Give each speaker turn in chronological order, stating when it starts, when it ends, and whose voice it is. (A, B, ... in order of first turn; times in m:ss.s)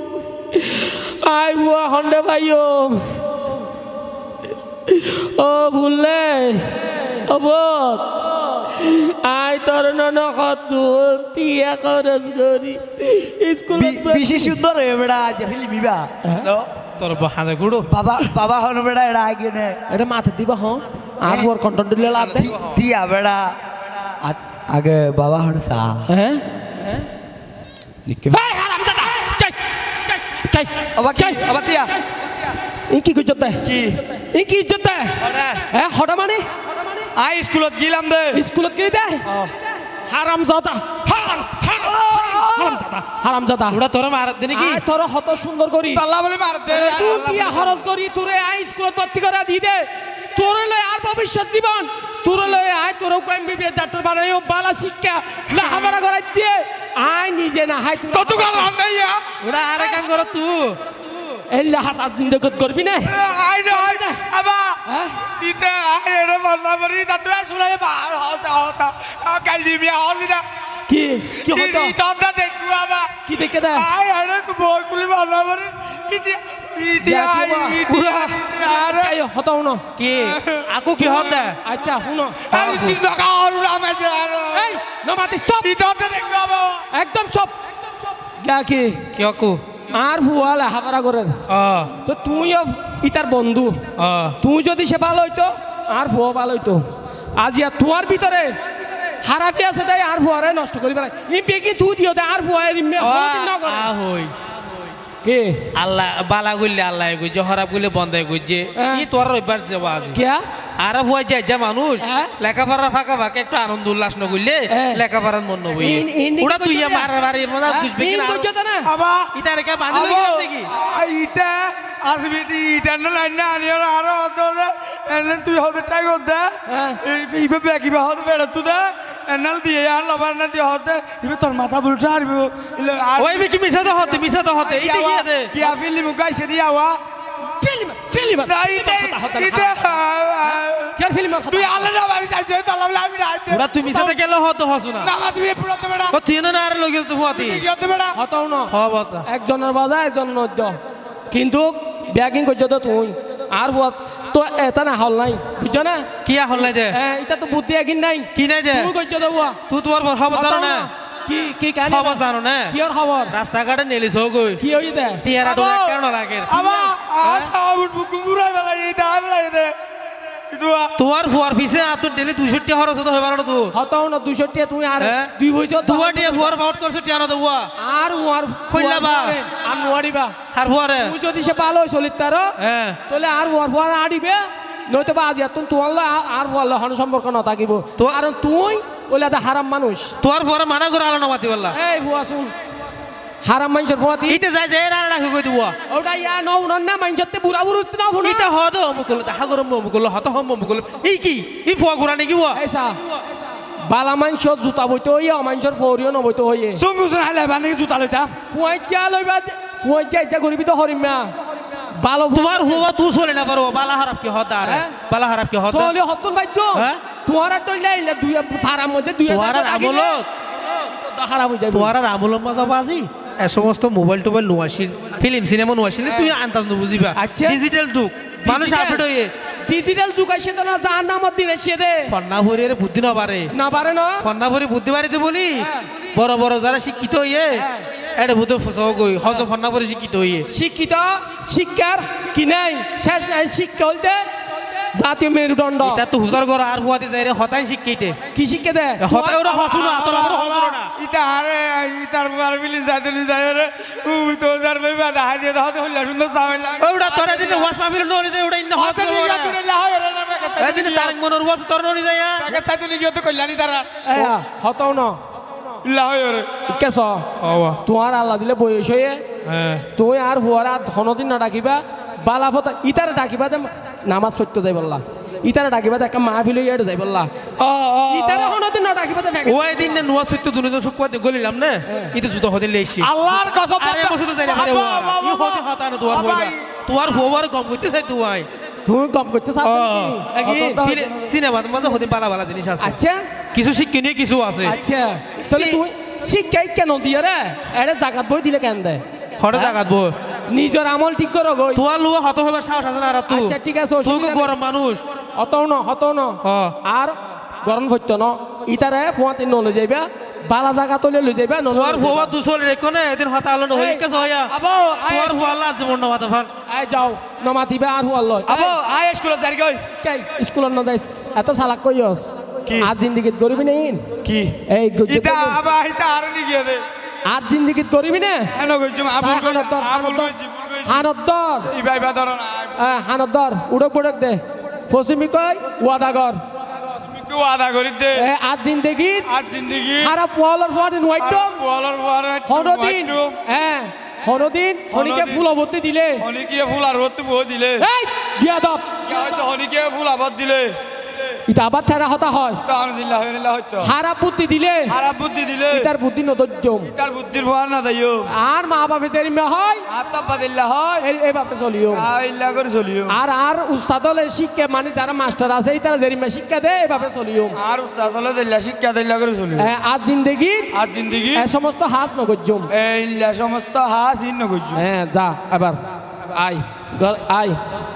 0:00.5-0:03.2 A
0:04.9-0:14.6 A
0:13.7-0:16.7 B
0:16.2-0:16.5 A
0:17.0-0:17.9 C
0:17.8-0:19.8 B
0:19.9-0:22.5 A
0:21.2-0:21.5 B
0:22.4-0:26.1 B
0:26.1-0:27.0 A
0:28.1-0:28.4 B
0:28.3-0:31.5 A
0:31.0-0:32.1 B
0:32.9-0:37.1 A
0:33.6-0:34.0 B
0:35.2-0:35.6 B
0:37.1-0:38.4 B
0:38.3-0:39.3 A
0:39.2-0:39.5 B
0:39.9-0:43.8 A
0:41.6-0:42.8 B
0:43.7-0:44.8 C
0:44.5-0:46.0 A
0:45.9-0:47.8 B
0:46.7-0:58.7 A
0:58.1-0:59.3 B
0:59.4-1:01.4 C
0:59.8-1:00.3 A
1:01.5-1:04.2 A
1:03.0-1:10.4 B
1:04.9-1:05.2 A
1:10.9-1:12.0 A
1:11.4-1:19.2 B
1:13.2-1:13.9 A
1:17.0-1:19.8 A
1:17.9-1:18.3 C
1:20.0-1:21.6 C
1:20.3-1:21.5 B
1:21.6-1:22.9 A
1:22.4-1:24.8 B
1:24.5-1:25.7 A
1:25.6-1:26.9 B
1:26.9-1:29.0 A
1:29.1-1:29.6 C
1:29.9-1:31.4 A
1:31.5-1:31.9 C
1:32.0-1:33.8 A
1:34.0-1:34.4 C
1:34.4-1:38.6 A
1:39.1-1:43.9 A
1:43.0-1:45.0 C
1:45.2-1:45.7 A
1:45.7-1:50.2 C
1:48.7-1:49.1 A
1:50.1-1:50.4 A
1:50.8-1:58.5 C
1:52.0-1:52.3 A
1:54.7-1:55.0 A
1:55.8-1:57.1 A
1:57.6-1:58.9 A
1:58.8-1:59.3 B
1:59.3-2:00.7 C
1:59.9-2:17.0 B
2:06.7-2:07.0 A
2:13.2-2:15.5 C
2:17.4-2:20.0 A
2:18.1-2:23.6 B
2:21.0-2:21.9 A
2:23.5-2:25.1 C
2:23.8-2:24.1 A
2:25.0-2:26.2 B
2:26.1-2:27.6 C
2:27.3-2:28.2 B
2:28.1-2:28.7 A
2:28.7-2:29.2 C
2:29.2-2:30.8 A
2:31.3-2:39.6 A
2:36.2-2:37.0 C
2:38.3-2:38.9 C
2:39.7-2:40.9 C
2:40.3-2:43.3 A
2:41.9-2:42.8 C
2:43.3-2:44.6 C
2:44.6-2:45.2 A
2:45.2-2:46.6 C
2:45.4-2:49.7 B
2:46.6-2:46.9 A
2:47.2-2:47.5 C
2:50.3-2:50.9 B
2:51.0-2:53.7 C
2:53.7-2:56.6 A
2:55.0-2:55.3 C
2:55.8-2:57.7 C
2:57.8-3:00.4 A
2:58.7-2:59.4 C
3:00.5-3:01.1 C
3:01.0-3:02.5 A
3:02.6-3:03.0 C
3:03.1-3:10.1 A
3:10.2-3:11.8 C
3:11.7-3:12.5 A
3:13.4-3:14.4 A
3:14.3-3:15.7 C
3:15.9-3:18.5 A
3:18.2-3:22.6 C
3:22.5-3:23.0 A
3:23.8-3:26.8 A
3:26.8-3:28.3 B
3:28.5-3:32.8 A
3:32.3-3:35.9 C
3:34.6-3:34.9 A
3:35.6-3:40.2 A
3:36.7-3:37.0 C
3:39.3-3:40.3 C
3:40.8-3:41.9 A
3:41.7-3:49.3 C
3:46.0-3:46.3 A
3:47.1-3:47.6 A
3:48.4-3:49.0 A
3:49.6-3:52.1 A
3:52.1-3:53.5 C
3:53.5-3:54.2 A
3:54.2-4:00.5 C
3:55.6-3:55.9 A
3:57.5-3:57.8 A
4:00.5-4:06.2 A
4:05.8-4:08.2 C
4:08.3-4:09.4 A
4:09.0-4:10.9 C
4:09.4-4:17.7 B
4:16.8-4:19.6 C
4:18.7-4:21.2 B
4:20.6-4:22.6 C
4:22.4-4:24.4 B
4:24.0-4:25.2 A
4:25.8-4:26.7 B
4:26.7-4:27.3 A
4:27.4-4:27.8 C
4:27.8-4:29.2 A
4:29.4-4:29.8 C
4:29.9-4:37.3 A
4:37.6-4:38.6 B
4:38.1-4:39.9 A
4:39.4-4:48.5 C
4:41.9-4:42.1 A
4:43.0-4:46.6 B
4:48.8-4:50.8 A
4:49.6-4:50.3 C
4:50.4-4:51.4 B
4:50.8-4:53.0 C
4:52.8-4:53.2 A
4:53.5-4:54.8 C
4:54.6-4:59.8 A
4:55.5-4:55.8 C
4:59.4-5:00.1 C
5:00.5-5:01.8 A
5:01.7-5:05.0 C
5:03.3-5:04.6 A
5:05.4-5:12.3 A
5:06.4-5:06.8 C
5:11.7-5:14.5 C
5:13.7-5:14.0 A
5:14.5-5:15.6 B
5:15.1-5:16.5 C
5:16.7-5:18.8 A
5:18.5-5:19.8 B
5:20.0-5:24.1 A
5:24.2-5:26.8 B
5:24.7-5:25.6 A
5:27.2-5:28.5 A
5:28.5-5:31.0 B
5:29.2-5:30.3 A
5:30.8-5:31.7 A
5:31.6-5:32.8 B
5:32.8-5:36.4 A
5:37.0-5:38.2 B
5:38.1-5:39.3 A
5:39.2-5:40.2 B
5:40.0-5:41.6 A
5:41.2-5:43.4 B
5:42.4-5:46.2 A
5:44.9-5:45.4 B
5:46.2-5:47.8 B
5:47.8-5:49.0 A
5:49.0-5:50.8 B
5:51.5-5:52.6 A
5:52.6-5:53.9 B
5:53.8-5:55.0 A
5:54.9-5:55.9 B
5:55.7-5:56.9 A
5:56.8-5:58.3 B
5:58.3-5:59.8 A
5:59.9-6:01.0 B
6:01.0-6:02.1 A
6:01.9-6:03.2 B
6:03.1-6:07.6 A
6:07.6-6:09.7 B
6:09.6-6:10.7 A
6:10.7-6:11.5 B
6:11.3-6:12.7 A
6:12.7-6:14.8 B
6:14.7-6:17.6 A